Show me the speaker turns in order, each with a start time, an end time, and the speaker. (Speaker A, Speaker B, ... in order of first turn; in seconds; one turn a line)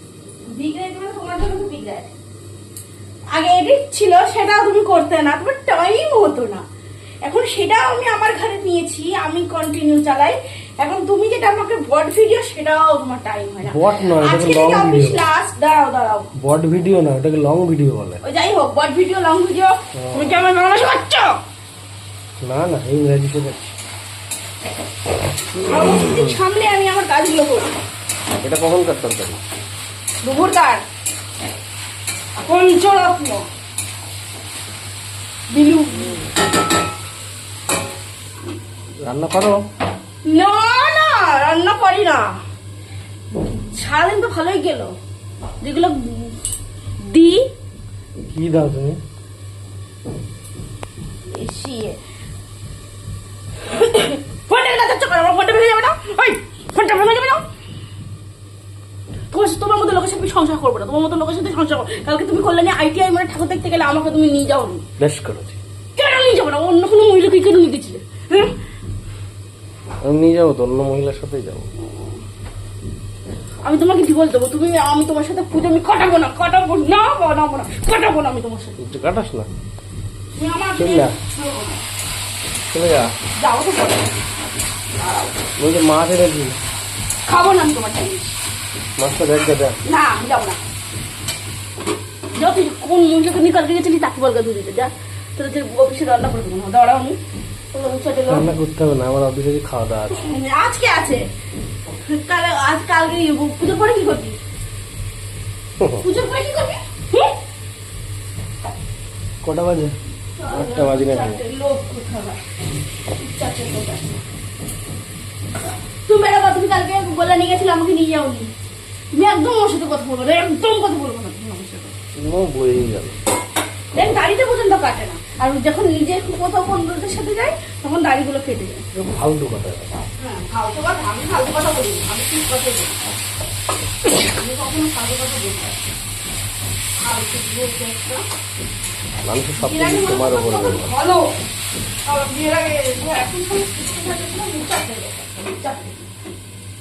Speaker A: 0.5-2.1
Speaker A: 3.3-6.6
Speaker A: 7.2-16.3
Speaker B: 13.6-15.2
Speaker B: 16.4-18.2
Speaker A: 18.2-21.3
Speaker B: 19.9-20.3
Speaker B: 22.4-23.7
Speaker A: 25.6-27.7
Speaker B: 25.6-26.4
Speaker B: 28.4-29.4
Speaker A: 30.2-30.8
Speaker A: 32.4-33.5
Speaker A: 35.5-36.2
Speaker B: 39.0-39.6
Speaker A: 40.2-42.4
Speaker A: 43.4-45.0
Speaker A: 45.6-46.4
Speaker A: 47.0-47.5
Speaker B: 48.3-49.0
Speaker A: 51.3-52.0
Speaker A: 53.7-57.4
Speaker A: 59.3-64.8
Speaker B: 65.0-65.6
Speaker A: 66.0-68.5
Speaker B: 70.0-71.7
Speaker A: 71.8-72.2
Speaker A: 73.6-78.8
Speaker B: 78.8-79.5
Speaker A: 80.3-81.8
Speaker B: 80.8-81.2
Speaker B: 82.7-83.1
Speaker A: 83.4-84.2
Speaker A: 85.0-85.5
Speaker B: 85.6-86.6
Speaker A: 87.2-88.4
Speaker B: 89.0-89.8
Speaker A: 89.8-90.6
Speaker A: 92.3-97.2
Speaker A: 97.7-98.5
Speaker B: 98.3-100.2
Speaker A: 100.1-101.3
Speaker A: 102.0-104.4
Speaker B: 105.8-106.0
Speaker A: 106.0-107.3
Speaker B: 109.4-109.9
Speaker A: 110.4-112.4
Speaker B: 110.5-111.4
Speaker A: 113.2-114.2
Speaker A: 116.0-118.5
Speaker A: 119.1-121.9
Speaker B: 122.2-123.2
Speaker A: 123.9-128.8
Speaker B: 128.9-129.9
Speaker A: 130.2-133.2
Speaker A: 134.1-135.8
Speaker A: 137.0-138.2
Speaker B: 139.2-140.9
Speaker A: 139.6-141.4
Speaker A: 142.0-146.1